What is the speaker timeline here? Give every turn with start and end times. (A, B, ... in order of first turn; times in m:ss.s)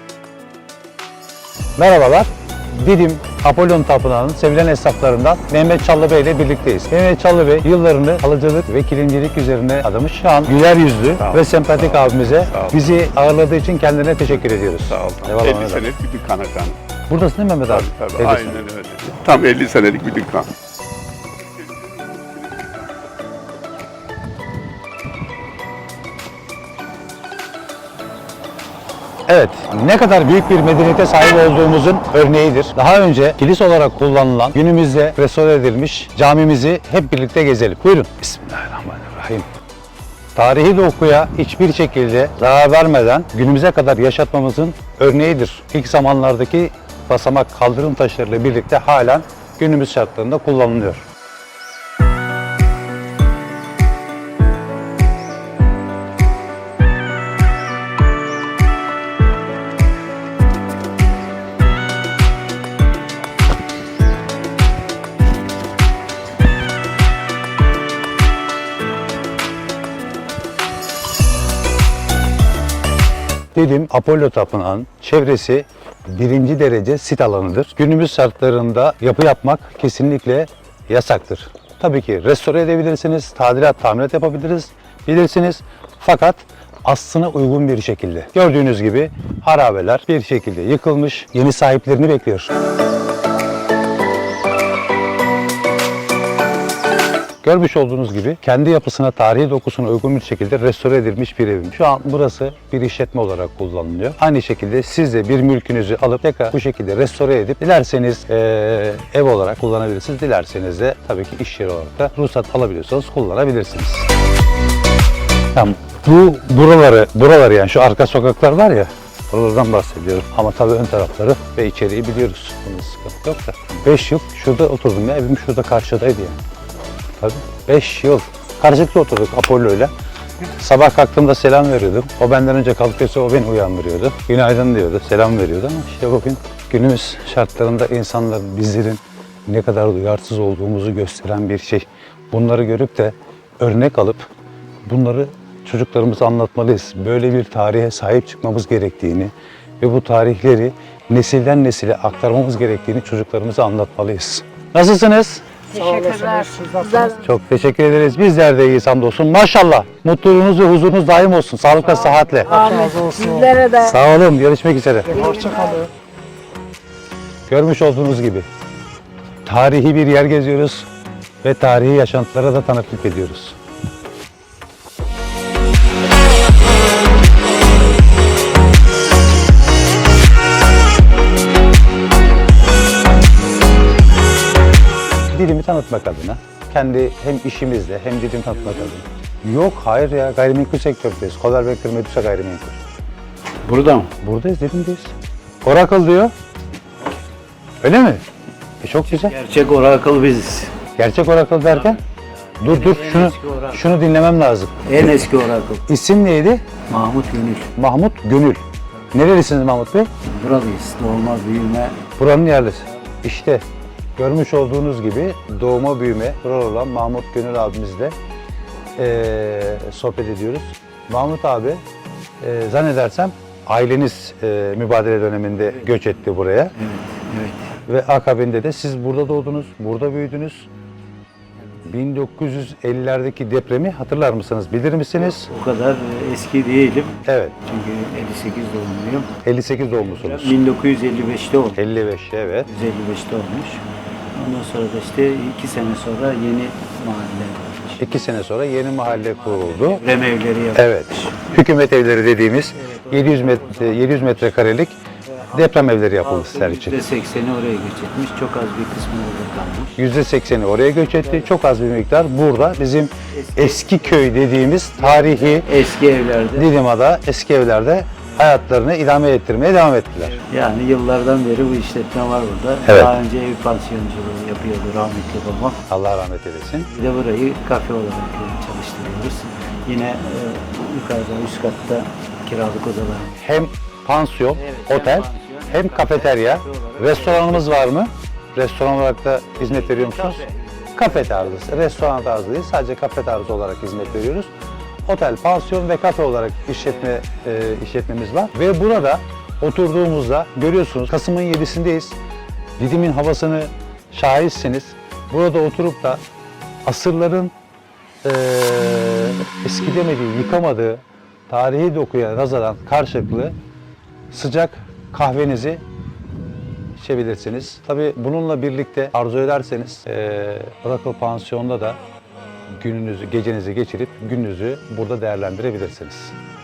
0:01.8-0:15.9 A
0:11.2-0:12.8 B
0:14.9-0:16.8 B
0:17.1-0:18.7 A
0:17.7-0:20.5 B
0:22.0-0:22.7 B
0:29.3-0:39.5 A
0:40.4-0:51.0 A
1:13.5-1:32.5 A
1:37.4-1:54.1 A
1:55.5-2:06.4 A
2:07.2-2:09.9 A
2:10.6-2:24.3 A
2:24.8-2:35.4 A
2:35.7-2:37.2 C
2:37.1-2:42.9 A
2:42.6-2:43.8 C
2:43.7-2:45.4 A
2:45.2-2:45.9 C
2:47.5-2:48.5 A
2:49.5-2:50.9 A
2:51.4-2:53.6 A
3:05.3-3:12.8 A
3:13.6-3:14.1 D
3:14.2-3:16.3 A
3:17.8-3:18.2 A
3:18.8-3:19.4 A
3:19.0-3:20.7 D
3:21.0-3:22.0 A
3:21.7-3:22.0 D
3:22.6-3:24.8 A
3:22.6-3:23.9 D
3:24.8-3:25.8 D
3:25.9-3:26.6 A
3:26.9-3:27.7 D
3:27.8-3:28.6 A
3:29.1-3:30.1 A
3:30.2-3:32.0 D
3:32.2-3:33.6 A
3:34.2-3:38.2 A
3:39.0-3:41.8 A
3:42.4-3:46.7 A
3:45.7-3:46.0 D
3:46.8-3:47.7 D
3:47.8-3:50.7 A
3:51.8-3:55.5 A
3:55.2-3:59.3 D
3:57.2-3:57.6 A
3:59.4-4:00.6 A
4:00.0-4:01.8 D
4:01.8-4:02.7 A
4:02.6-4:03.8 D
4:04.3-4:08.3 D
4:08.0-4:10.0 A
4:09.0-4:11.5 D
4:10.7-4:15.0 A
4:12.8-4:14.6 D
4:15.4-4:20.0 D
4:15.5-4:17.0 A
4:20.0-4:25.7 A
4:21.2-4:21.5 D
4:23.4-4:26.7 D
4:26.5-4:30.4 A
4:30.2-4:35.8 D
4:32.9-4:33.1 A
4:35.9-4:36.9 A
4:36.9-4:43.3 D
4:43.4-4:50.4 A
4:44.5-4:48.0 D
4:49.6-4:52.3 D
4:51.0-4:54.5 A
4:55.1-5:02.2 A
4:56.8-4:57.2 D
5:02.8-5:06.2 A
5:06.8-5:07.5 A
5:08.2-5:13.6 A
5:14.3-5:15.8 A
5:17.0-5:22.0 A
5:22.7-5:26.4 A